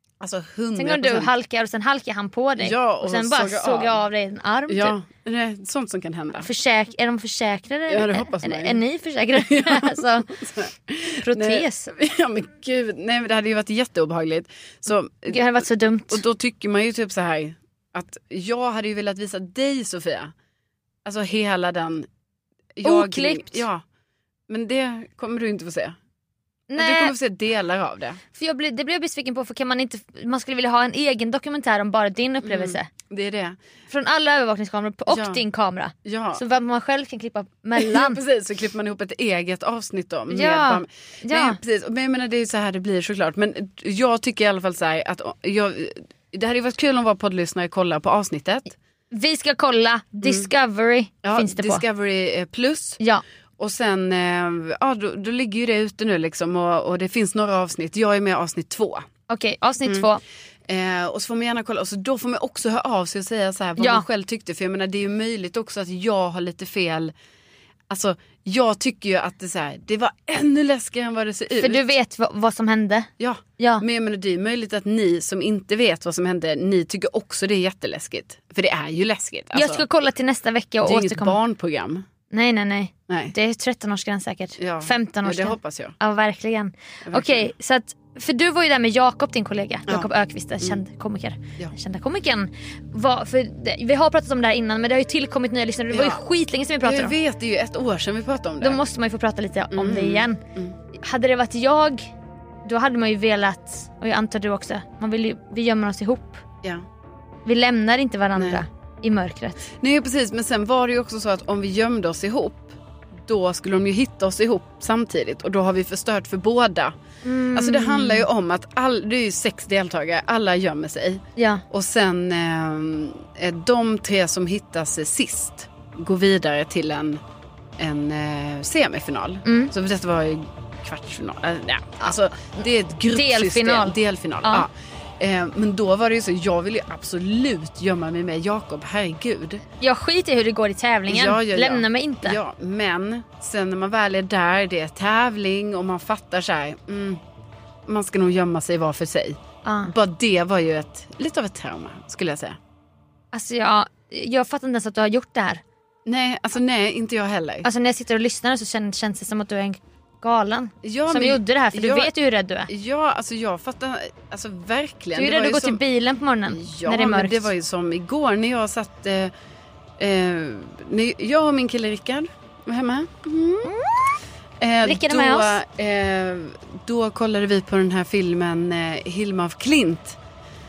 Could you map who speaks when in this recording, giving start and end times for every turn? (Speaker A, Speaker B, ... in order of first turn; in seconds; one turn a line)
Speaker A: 0.2-1.3
Speaker B: 0.8-4.9
Speaker A: 2.6-4.0
Speaker A: 4.7-6.5
Speaker B: 6.4-10.3
Speaker A: 7.9-8.8
Speaker A: 9.3-20.3
Speaker B: 11.2-11.9
Speaker B: 15.3-16.2
Speaker A: 21.0-22.1
Speaker A: 22.7-23.8
Speaker B: 22.8-23.6
Speaker A: 24.5-26.0
Speaker B: 26.7-27.1
Speaker A: 26.8-28.2
Speaker B: 28.3-32.9
Speaker A: 32.4-33.6
Speaker B: 33.9-38.2
Speaker A: 35.1-35.4
Speaker A: 36.0-36.4
Speaker A: 37.8-48.8
Speaker B: 40.3-41.6
Speaker B: 49.1-51.8
Speaker A: 51.2-53.0
Speaker A: 53.6-59.1
Speaker B: 59.3-60.2
Speaker A: 60.7-67.1
Speaker B: 63.8-64.0
Speaker A: 67.9-71.9
Speaker B: 71.6-73.8
Speaker A: 73.2-79.8
Speaker B: 79.5-81.4
Speaker A: 80.8-82.0
Speaker B: 82.3-97.1
Speaker A: 84.6-86.0
Speaker A: 87.0-87.5
Speaker A: 89.8-90.8
Speaker A: 95.9-96.2
Speaker A: 96.8-98.8
Speaker B: 98.6-100.4
Speaker A: 99.7-100.8
Speaker B: 100.9-102.1
Speaker B: 102.6-106.4
Speaker B: 107.5-109.7
Speaker A: 108.3-108.6
Speaker A: 109.7-116.9
Speaker B: 117.2-118.3
Speaker A: 117.5-127.2
Speaker B: 121.4-121.6
Speaker A: 127.8-139.6
Speaker B: 129.4-129.7
Speaker B: 133.1-134.7
Speaker B: 139.8-142.4
Speaker A: 141.1-147.2
Speaker A: 147.8-152.6
Speaker B: 149.6-149.9
Speaker B: 153.3-155.6
Speaker A: 156.1-157.7
Speaker B: 157.6-162.7
Speaker A: 160.8-162.1
Speaker A: 162.7-165.8
Speaker B: 165.1-167.5
Speaker A: 166.5-169.3
Speaker A: 170.0-173.7
Speaker B: 173.6-174.2
Speaker A: 174.6-180.2
Speaker B: 174.8-175.6